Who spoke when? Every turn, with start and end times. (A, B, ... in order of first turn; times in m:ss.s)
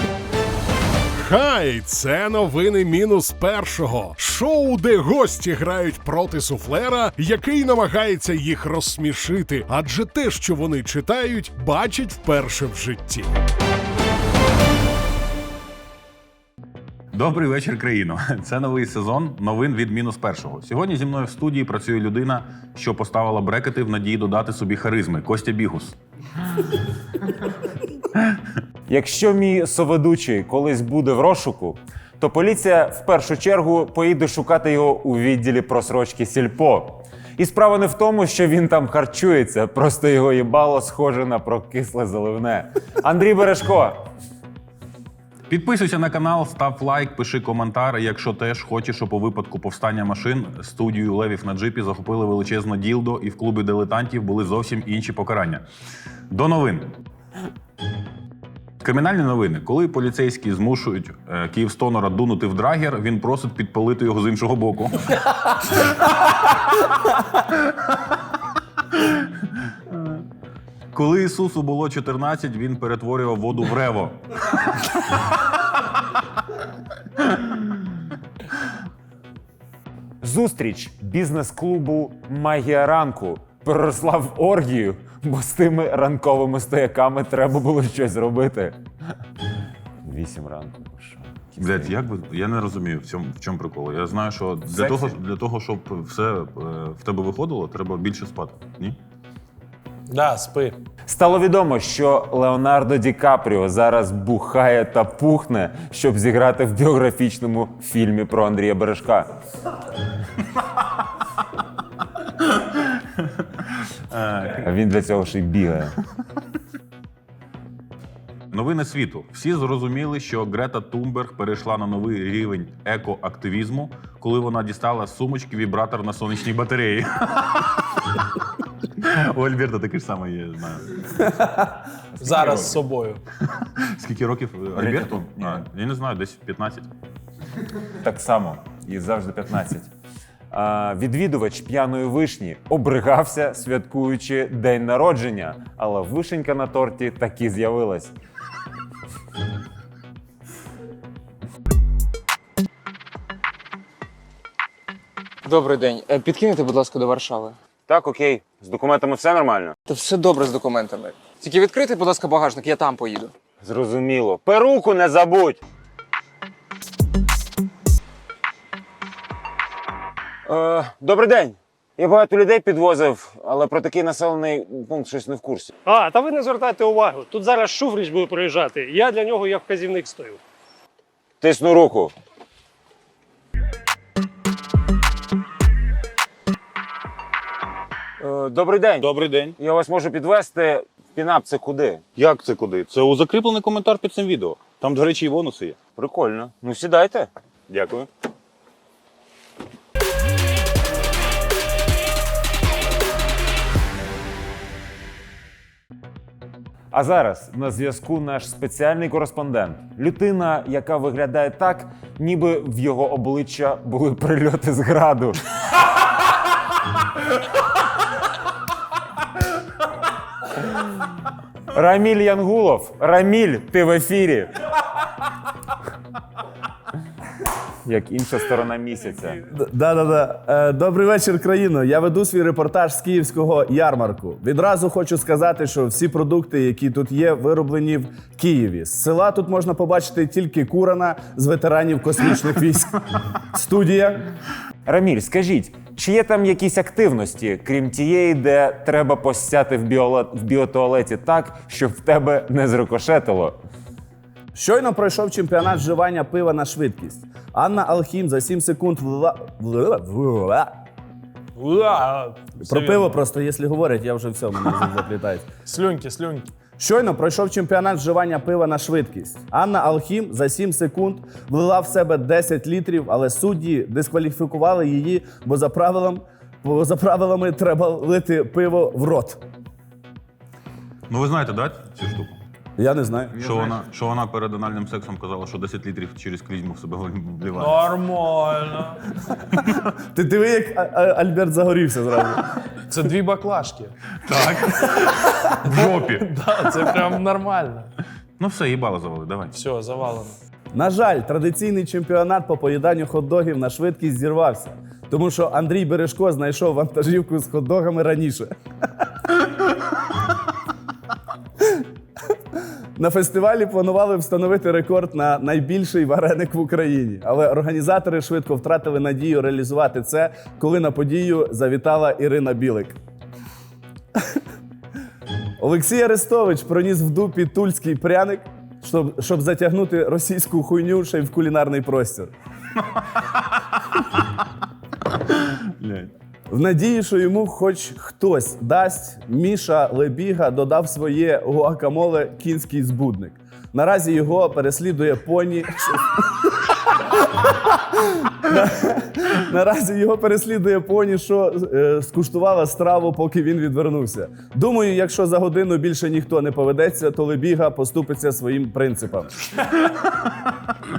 0:01.2-0:13.3 A
0:17.1-0:26.0 B
0:28.9-0:44.0 C
0:45.5-0:55.6 B
0:56.3-0:57.0 B
0:58.8-1:05.2 B
1:06.0-1:06.6 B
1:09.0-1:09.2 B
1:10.9-1:15.2 B
1:17.4-1:17.6 B
1:20.2-1:28.8 C
1:30.0-1:31.9 C
1:31.6-1:39.0 B
1:40.1-1:40.8 D
1:41.1-1:49.3 C
1:52.4-1:52.8 B
1:54.1-1:54.6 B
1:54.6-1:55.9 C
1:58.5-2:08.2 B
2:09.0-2:11.3 B
2:12.2-2:13.2 D
2:12.2-2:12.8 C
2:13.5-2:16.9 B
2:14.8-2:15.6 C
2:18.0-2:19.9 C
2:20.5-2:28.1 C
2:35.5-2:37.6 E
2:37.9-2:39.8 C
2:39.9-2:43.3 E
2:43.6-2:45.6 C
2:50.5-2:55.7 C
2:55.9-3:00.4 F
3:01.4-3:02.1 C
3:08.2-3:09.1 C
3:09.0-3:09.6 B
3:09.6-3:12.0 C
3:12.2-3:15.8 B
3:16.0-3:17.3 C
3:17.7-3:18.1 B
3:26.9-3:35.4 C
3:41.7-3:44.5 C
3:47.8-3:49.4 C
3:49.5-4:04.2 G
4:04.9-4:13.6 C
4:14.6-4:20.7 G
4:21.6-4:23.1 D
4:22.6-4:25.5 G
4:25.7-4:26.5 D
4:26.8-4:39.4 G
4:41.1-4:42.4 B
4:42.8-4:43.4 G
4:43.4-4:47.9 B
4:47.6-4:49.0 D
4:50.1-4:52.5 G
4:52.9-4:54.0 D
4:54.2-4:56.3 B
4:55.6-4:57.9 D
4:58.4-4:59.5 B
4:59.5-5:00.4 D
5:00.7-5:08.5 G
5:13.0-5:23.0 G
5:25.6-5:32.3 G
5:33.0-5:33.4 B
5:35.3-5:36.1 B
5:36.5-5:46.5 G
5:47.7-5:59.3 G